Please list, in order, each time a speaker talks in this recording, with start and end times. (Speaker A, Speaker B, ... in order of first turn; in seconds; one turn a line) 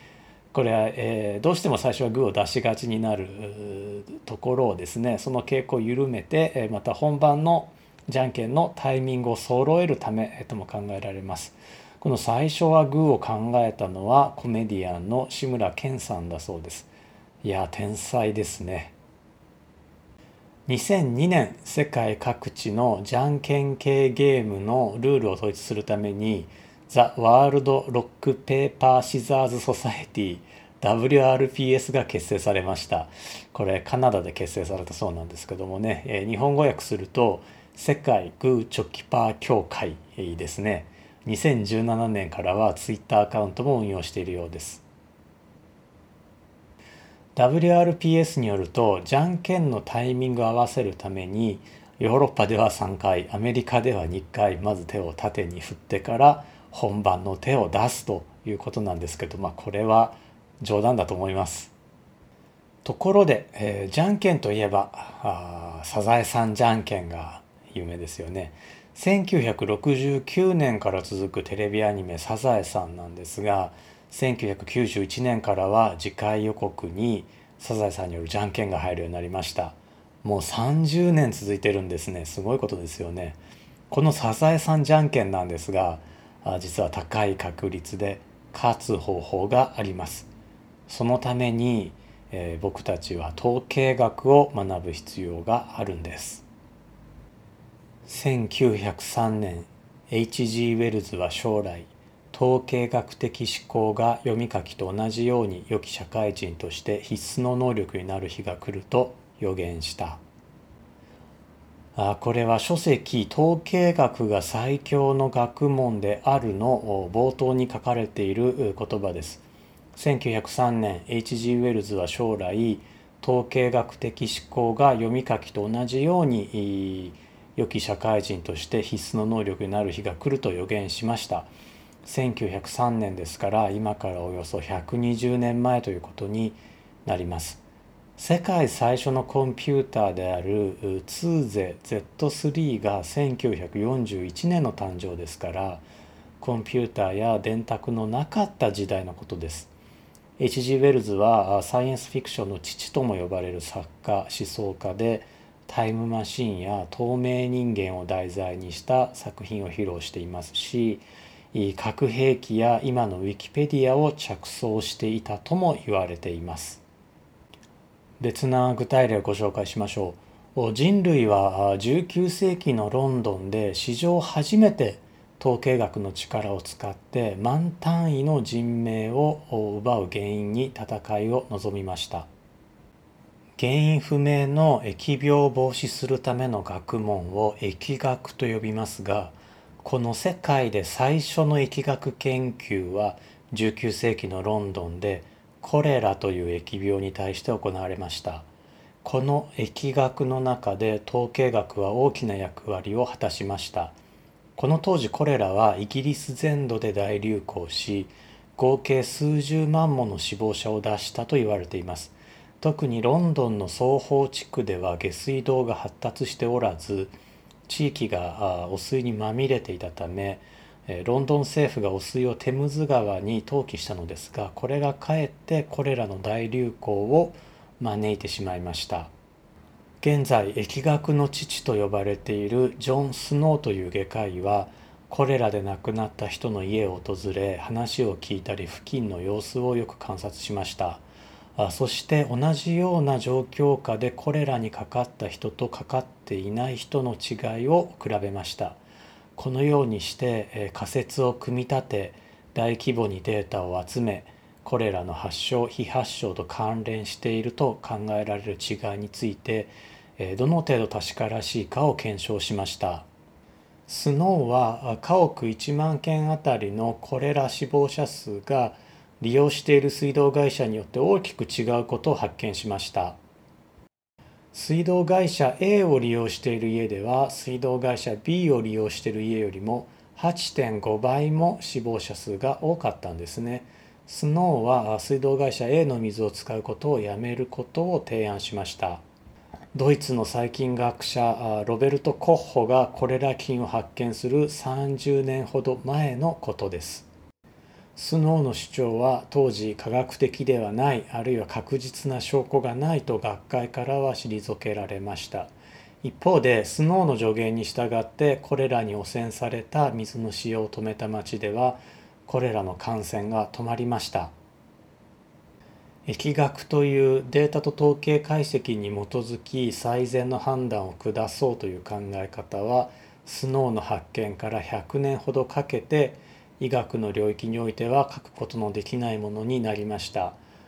Speaker A: 0.5-16.9
Speaker A: 17.4-18.9
Speaker A: 20.7-44.8
Speaker A: 47.4-61.7
Speaker A: 62.8-83.4
Speaker A: 83.9-90.3
Speaker A: 90.9-96.5
Speaker A: 98.1-110.2
Speaker A: 112.0-131.5
Speaker A: 132.0-137.6
Speaker A: 138.2-145.9
Speaker A: 146.4-149.7
Speaker A: 150.4-166.8
Speaker A: 168.2-182.3
Speaker A: 183.6-198.5
Speaker A: 199.0-204.0
Speaker A: 204.6-217.2
Speaker A: 217.7-229.1
Speaker A: 230.0-241.0
Speaker A: 241.6-248.8
Speaker A: 249.4-263.1
Speaker A: 263.9-273.2
Speaker A: 274.5-289.0
Speaker A: 289.7-297.1
Speaker A: 298.0-314.3
Speaker A: 316.1-330.4